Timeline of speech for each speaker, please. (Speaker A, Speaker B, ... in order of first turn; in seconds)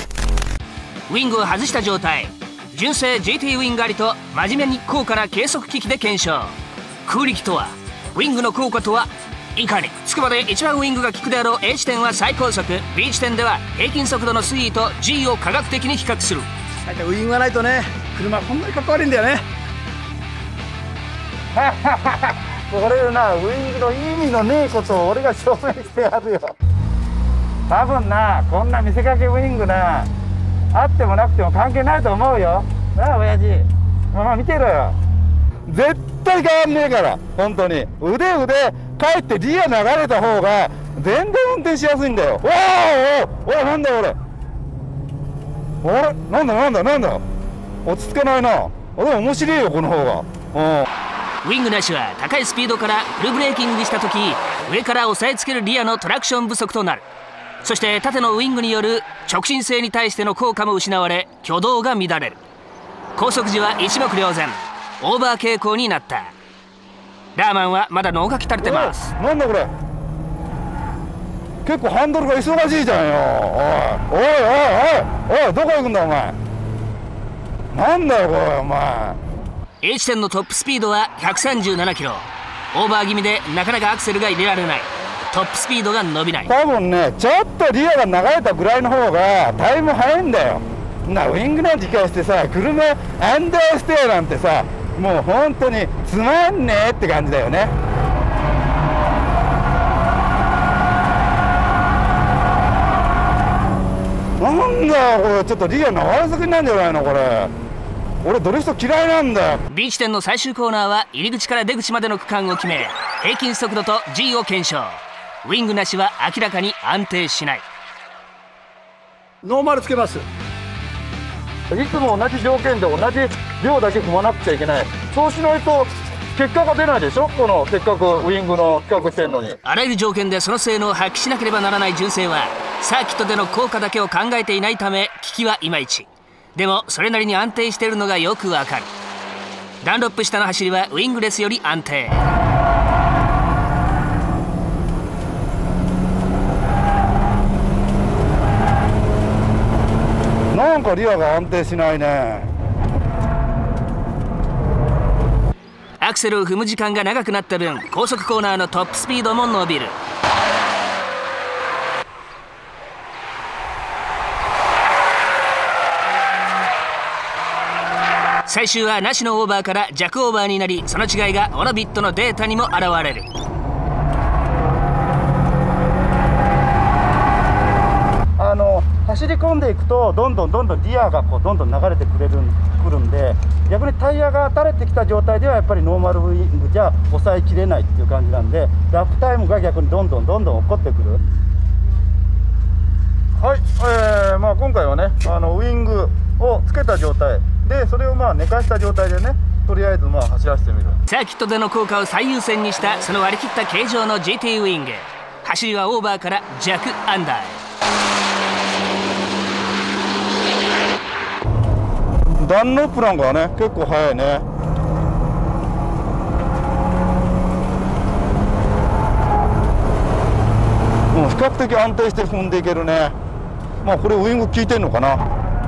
Speaker A: 1.1-16.5, 51.4-57.0, 57.6-62.4, 63.2-66.3, 67.4-69.1, 79.8-86.5, 109.7-117.6, 129.7-138.9, 139.8-142.3, 156.0-160.0, 168.5-173.3, 201.1-207.6
Speaker B: 16.9-19.4, 21.5-26.5, 27.7-30.1, 30.7-35.0, 35.7-44.2, 45.8-47.2, 47.9-50.9, 68.6-69.7, 71.7-76.4, 77.7-79.2, 86.5-97.8, 104.4-107.5, 108.2-109.6, 119.4-120.3, 121.7-129.6, 150.5-152.5, 178.4-191.2, 193.4-201.0, 212.4-214.5, 221.1-223.2, 223.8-225.2